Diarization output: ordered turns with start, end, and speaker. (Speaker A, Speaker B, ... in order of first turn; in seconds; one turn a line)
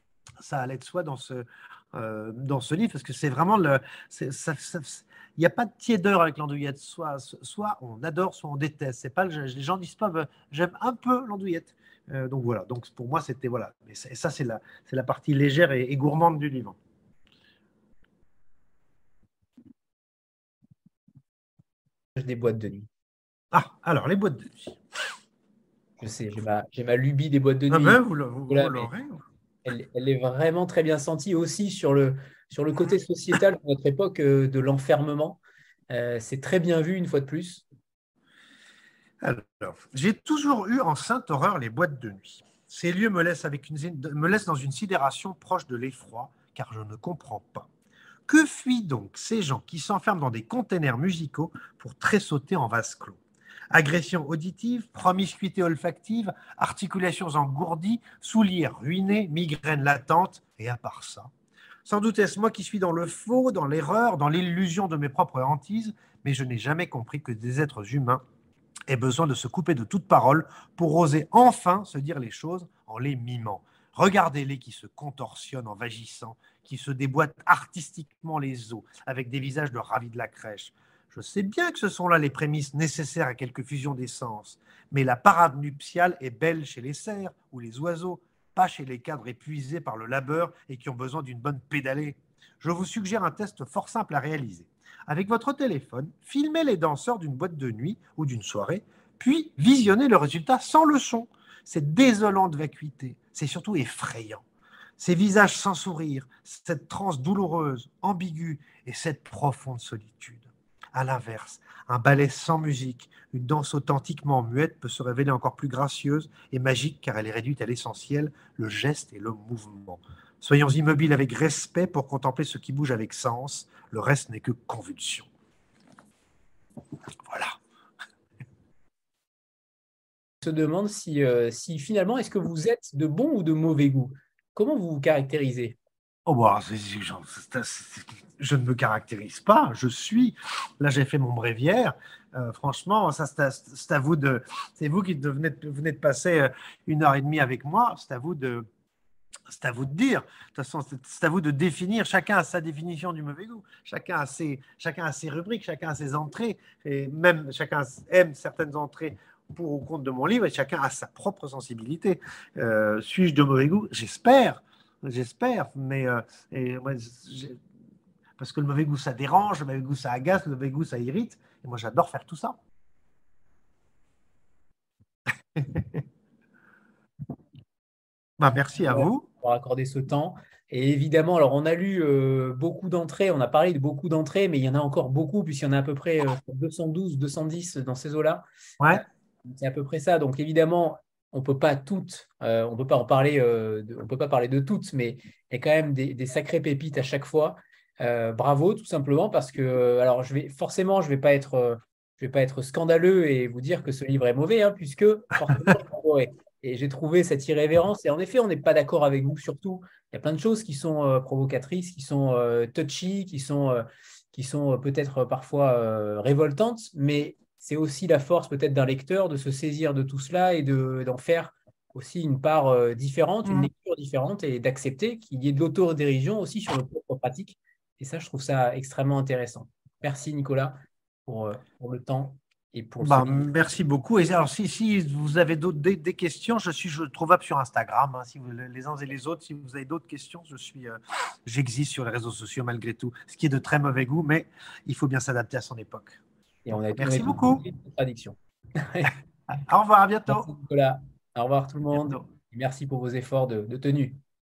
Speaker A: 0.4-16.8
Speaker B: 22.2-22.9
Speaker A: 23.5-24.8
Speaker B: 26.0-28.9
Speaker A: 27.7-29.2
Speaker B: 29.6-37.6
Speaker A: 39.2-47.7
Speaker A: 48.3-53.2
Speaker A: 53.7-61.3
Speaker A: 61.9-68.2
Speaker A: 68.9-104.4
Speaker A: 105.0-125.3
Speaker A: 127.2-127.6
Speaker B: 130.4-135.8
Speaker A: 136.3-148.7
Speaker A: 149.5-167.6
Speaker A: 168.4-172.6
Speaker A: 175.6-176.0
Speaker A: 178.4-179.3
Speaker B: 178.8-233.5
Speaker A: 223.4-223.7
Speaker A: 233.0-246.2
Speaker B: 246.7-249.1
Speaker A: 247.0-247.6
Speaker A: 249.5-250.5
Speaker B: 250.3-254.2
Speaker A: 252.0-252.2